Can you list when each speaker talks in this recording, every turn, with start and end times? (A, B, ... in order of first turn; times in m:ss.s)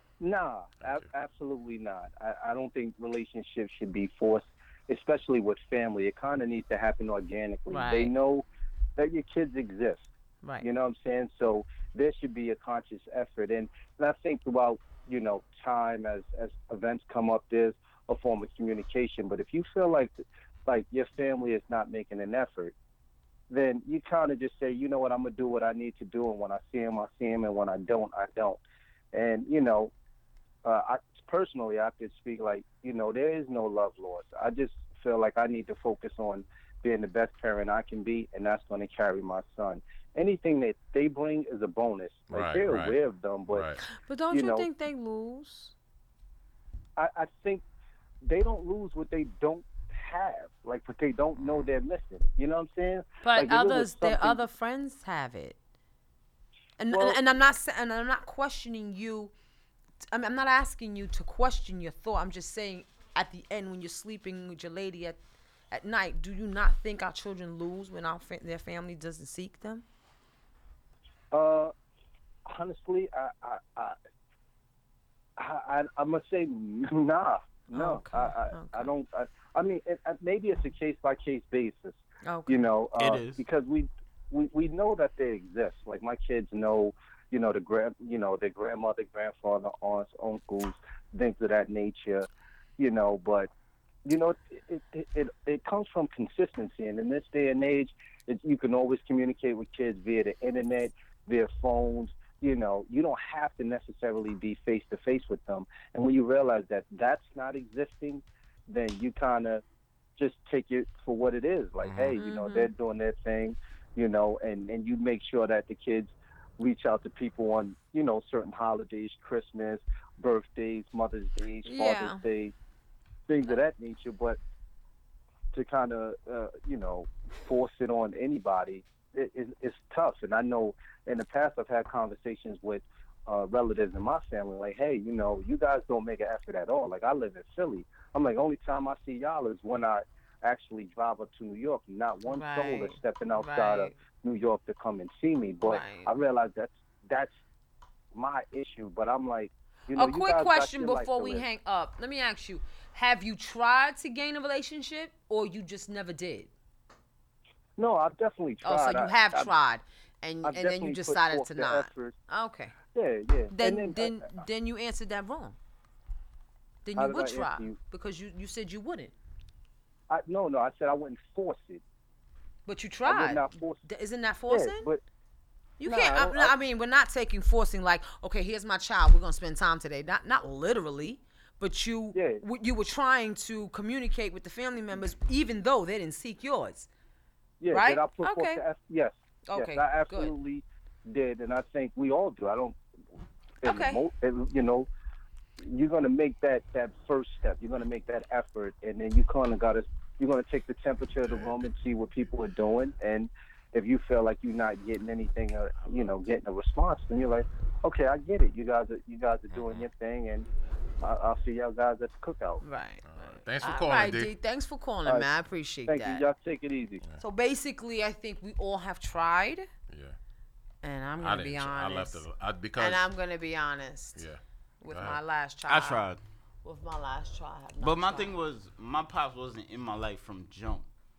0:00.2-0:08.4 A
0:00.8-0:01.1 B
0:07.7-0:08.1 C
0:09.0-0:10.1 A
0:10.6-0:22.7 A
0:23.5-0:28.6 A
0:29.1-0:29.9 A
0:30.6-0:43.7 A
0:42.3-0:43.0 B
0:43.5-0:43.8 B
0:43.8-0:45.7 C
0:44.3-0:44.7 A
0:47.0-0:47.6 A
0:48.2-0:54.4 A
0:51.4-0:51.7 B
0:53.2-0:55.6 C
0:56.8-0:59.3 C
0:56.9-0:57.2 A
1:00.1-1:05.2 C
1:05.7-1:09.8 C
1:11.3-1:11.7 A
1:12.5-1:14.0 A
1:15.4-1:33.5 A
1:17.7-1:18.9 C
1:22.2-1:22.6 C
1:23.0-1:23.4 D
1:34.0-1:49.6 A
1:50.2-2:02.5 A
1:51.8-1:52.2 B
1:52.2-1:52.7 C
2:01.6-2:02.2 C
2:03.3-2:04.4 A
2:05.5-2:27.3 A
2:22.3-2:24.0 C
2:25.6-2:26.1 C
2:28.1-2:31.4 A
2:30.0-2:36.5 C
2:37.8-2:39.5 A
2:38.6-2:42.8 C
2:40.4-2:42.2 A
2:42.9-2:44.3 A
2:43.5-2:45.6 C
2:46.8-2:49.1 C
2:47.0-2:47.8 A
2:50.1-2:51.8 A
2:52.7-2:54.9 C
2:53.1-2:53.8 A
2:54.5-2:55.0 A
2:55.8-3:06.9 C
2:55.8-2:56.5 A
3:02.1-3:02.4 A
3:07.6-3:12.8 A
3:07.7-3:08.6 C
3:09.5-3:10.3 C
3:13.6-3:14.9 A
3:13.6-3:14.0 C
3:15.6-3:30.5 A
3:21.2-3:21.6 B
3:25.8-3:26.1 B
3:29.5-3:29.9 B
3:31.0-3:32.6 A
3:32.6-3:36.2 C
3:33.0-3:34.3 B
3:35.9-3:37.0 A
3:37.2-3:39.7 C
3:39.9-3:40.2 B
3:40.8-3:42.2 C
3:41.2-3:43.0 B
3:42.8-3:44.2 C
3:44.2-3:45.2 B
3:44.8-3:46.0 C
3:45.7-3:46.2 D
3:46.6-3:48.4 C
3:47.8-3:50.9 D